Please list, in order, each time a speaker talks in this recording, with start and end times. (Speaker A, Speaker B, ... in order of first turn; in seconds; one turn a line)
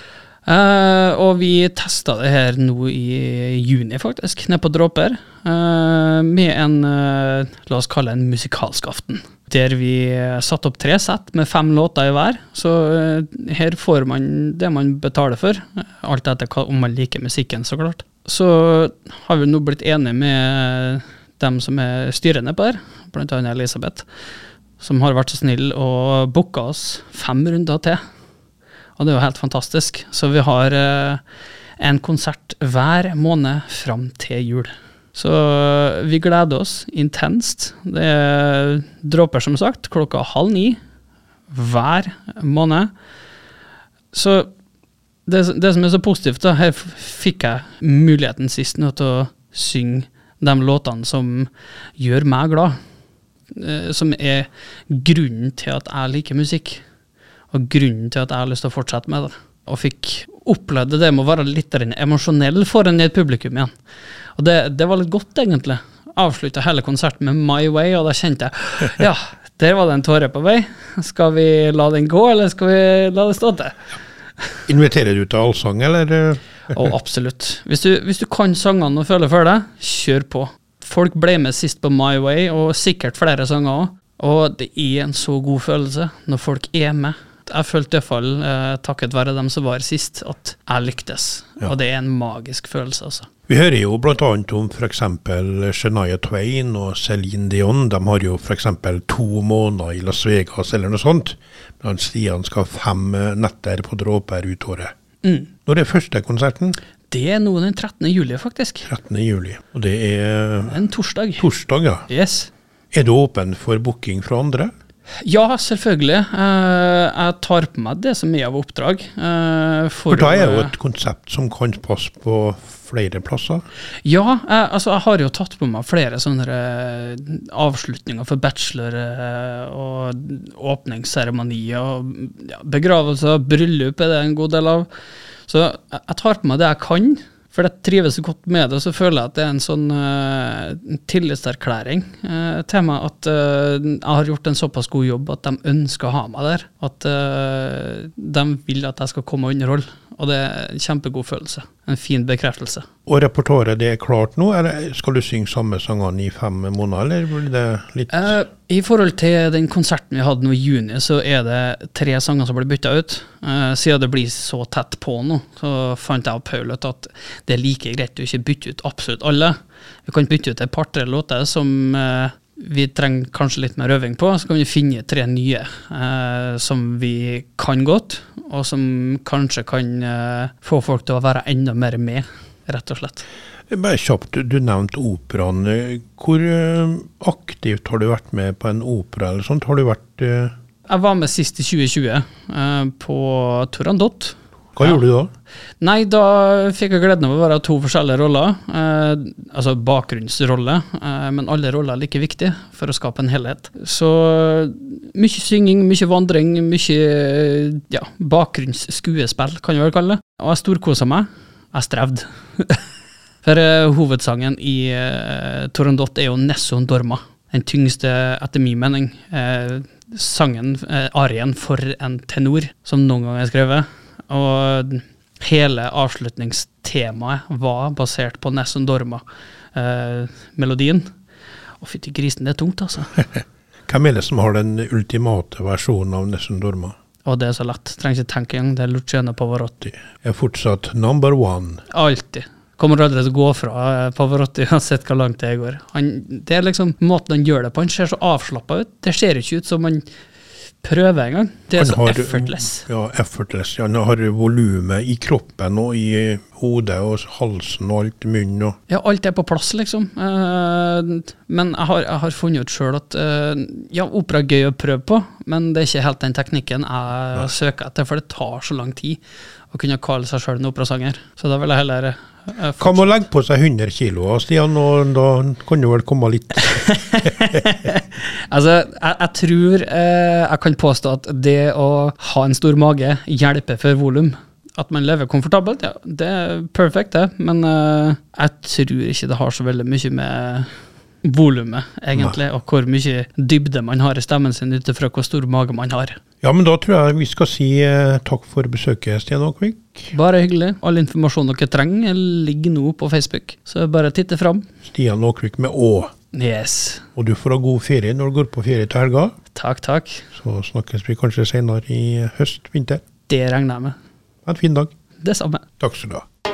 Speaker A: 0.5-24.1
Speaker A: 24.8-28.0
Speaker A: 28.9-31.2
Speaker A: 31.8-40.8
Speaker A: 41.5-42.9
Speaker A: 44.1-44.5
Speaker A: 45.2-52.7
Speaker A: 53.5-56.8
Speaker A: 57.5-63.7
Speaker A: 64.3-73.8
Speaker B: 74.7-76.8
Speaker A: 76.7-93.3
Speaker B: 93.5-104.9
Speaker A: 105.2-105.5
Speaker B: 105.7-106.8
Speaker A: 107.1-108.9
Speaker B: 108.8-110.8
Speaker A: 110.7-111.5
Speaker B: 111.4-112.0
Speaker A: 112.1-112.5
Speaker B: 112.9-114.7
Speaker A: 115.2-120.7
Speaker B: 120.1-123.6
Speaker A: 124.0-134.9
Speaker A: 135.5-152.8
Speaker B: 153.1-158.3
Speaker A: 158.1-169.5
Speaker A: 170.1-183.2
Speaker B: 183.7-190.5
Speaker A: 190.9-195.0
Speaker B: 194.8-195.3
Speaker A: 195.8-212.8
Speaker A: 213.4-231.0
Speaker A: 231.8-233.2
Speaker B: 233.9-236.9
Speaker A: 237.2-239.9
Speaker B: 239.9-241.8
Speaker A: 241.9-250.1
Speaker A: 250.8-252.8
Speaker B: 251.8-258.8
Speaker A: 258.9-269.2
Speaker A: 269.7-273.2
Speaker B: 272.8-276.9
Speaker A: 276.6-290.7
Speaker A: 291.2-296.2
Speaker B: 296.4-300.1
Speaker A: 300.1-304.6
Speaker B: 304.9-306.1
Speaker A: 306.3-307.1
Speaker B: 307.1-309.3
Speaker A: 309.5-310.2
Speaker B: 310.3-313.0
Speaker A: 313.3-313.9
Speaker B: 314.4-314.9
Speaker A: 315.2-315.6
Speaker B: 315.8-316.2